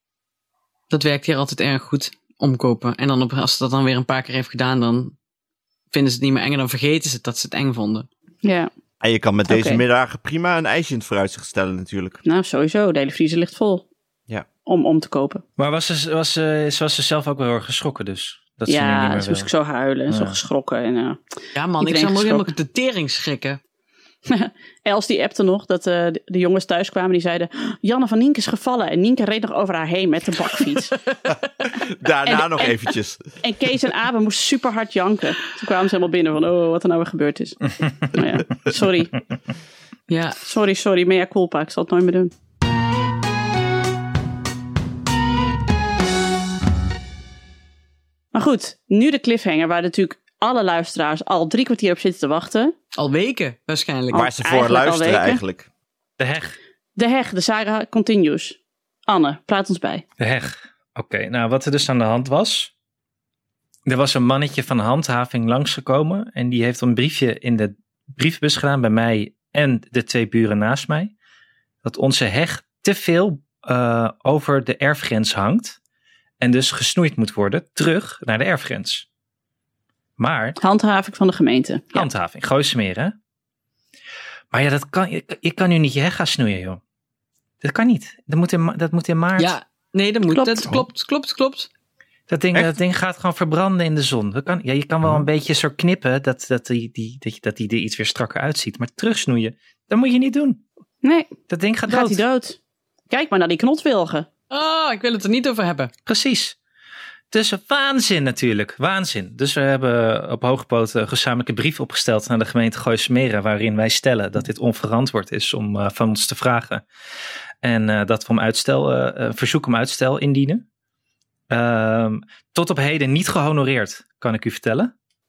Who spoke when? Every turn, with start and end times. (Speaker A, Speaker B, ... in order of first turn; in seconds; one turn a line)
Speaker A: 0.9-5.2
Speaker A: 5.9-8.1
Speaker B: 8.4-8.7
Speaker C: 9.0-12.2
Speaker B: 9.5-9.8
Speaker B: 12.2-13.9
Speaker B: 14.7-15.4
Speaker D: 15.6-19.5
Speaker B: 18.7-21.2
Speaker D: 20.1-20.4
Speaker A: 21.6-23.6
Speaker B: 21.8-22.5
Speaker B: 24.3-31.0
Speaker C: 31.8-33.2
Speaker B: 32.3-32.8
Speaker B: 33.4-39.2
Speaker A: 40.1-40.4
Speaker B: 40.5-42.3
Speaker B: 48.3-52.7
Speaker A: 53.0-54.3
Speaker B: 54.1-55.4
Speaker C: 54.1-55.7
Speaker D: 56.2-56.6
Speaker B: 57.0-60.0
Speaker D: 60.2-62.7
Speaker D: 63.9-71.1
Speaker D: 71.8-75.8
Speaker D: 76.4-79.1
Speaker D: 80.2-80.6
Speaker B: 80.6-82.1
Speaker D: 81.9-83.2
Speaker D: 84.5-86.8
Speaker D: 87.6-89.6
Speaker A: 89.4-91.7
Speaker B: 90.3-90.8
Speaker D: 92.3-100.6
Speaker B: 101.0-101.3
Speaker D: 101.5-102.2
Speaker B: 101.9-102.6
Speaker B: 103.1-104.3
Speaker A: 104.5-105.9
Speaker D: 106.1-106.6
Speaker D: 107.3-116.8
Speaker D: 117.6-120.6
Speaker D: 121.5-124.9